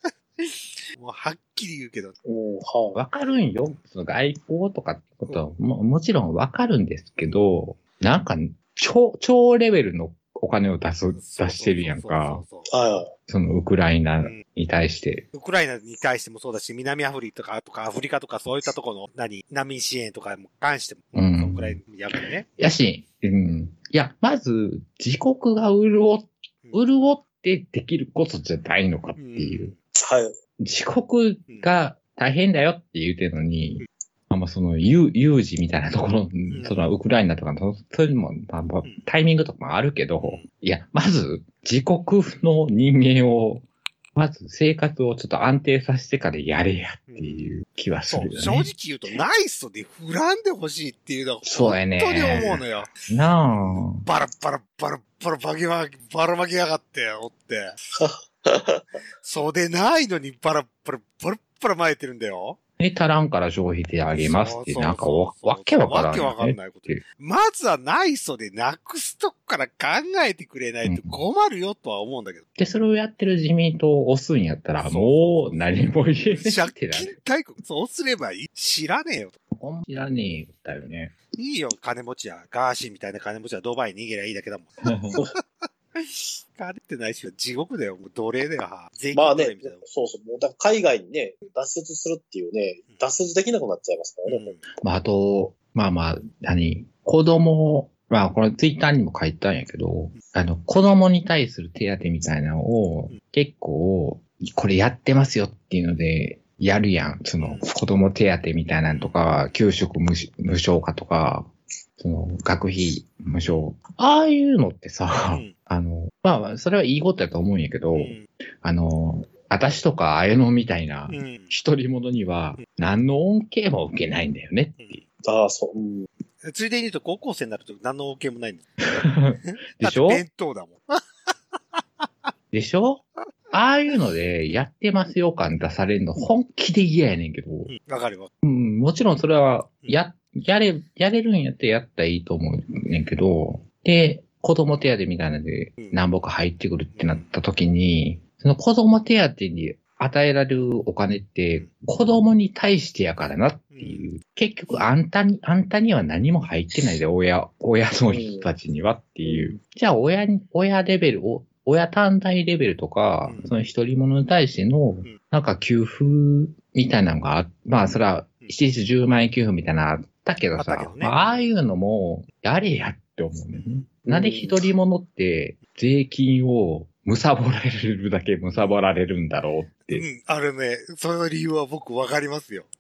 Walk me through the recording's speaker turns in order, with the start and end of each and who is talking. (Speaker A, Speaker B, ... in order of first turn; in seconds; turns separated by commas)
Speaker A: 0.4-2.1, Speaker B: 2.2-3.0, Speaker C: 2.9-12.4, Speaker A: 11.2-12.7, Speaker B: 12.7-13.1, Speaker C: 13.3-15.3, Speaker A: 15.3-22.5, Speaker C: 21.1-21.8, Speaker C: 22.6-29.7, Speaker A: 29.2-29.8, Speaker B: 29.9-30.4, Speaker C: 30.6-48.7, Speaker A: 36.5-36.9, Speaker A: 47.1-47.5, Speaker A: 48.1-57.8, Speaker C: 51.5-54.0, Speaker B: 58.0-58.9, Speaker A: 59.2-62.6, Speaker C: 62.8-67.0, Speaker A: 64.1-72.5, Speaker C: 70.9-71.2, Speaker C: 72.6-77.2, Speaker A: 74.8-75.7, Speaker A: 76.3-79.3, Speaker C: 79.5-81.1, Speaker A: 81.3-84.7, Speaker C: 84.8-85.2, Speaker A: 85.2-89.8, Speaker B: 89.1-94.6, Speaker A: 94.3-94.6, Speaker C: 94.8-125.0, Speaker A: 107.4-107.7, Speaker A: 108.9-109.2, Speaker A: 117.9-118.2, Speaker A: 121.1-121.5, Speaker B: 125.2-126.1, Speaker A: 126.4-128.6, Speaker C: 128.8-130.2, Speaker A: 129.4-132.1, Speaker C: 132.5-137.7, Speaker A: 137.7-138.3, Speaker C: 138.4-180.1, Speaker A: 146.9-147.3, Speaker A: 153.7-154.1, Speaker B: 158.1-158.5, Speaker B: 159.2-159.6, Speaker A: 163.2-163.5, Speaker A: 170.6-171.4, Speaker A: 173.5-173.8, Speaker B: 174.1-174.6, Speaker A: 178.5-178.8, Speaker A: 179.9-182.7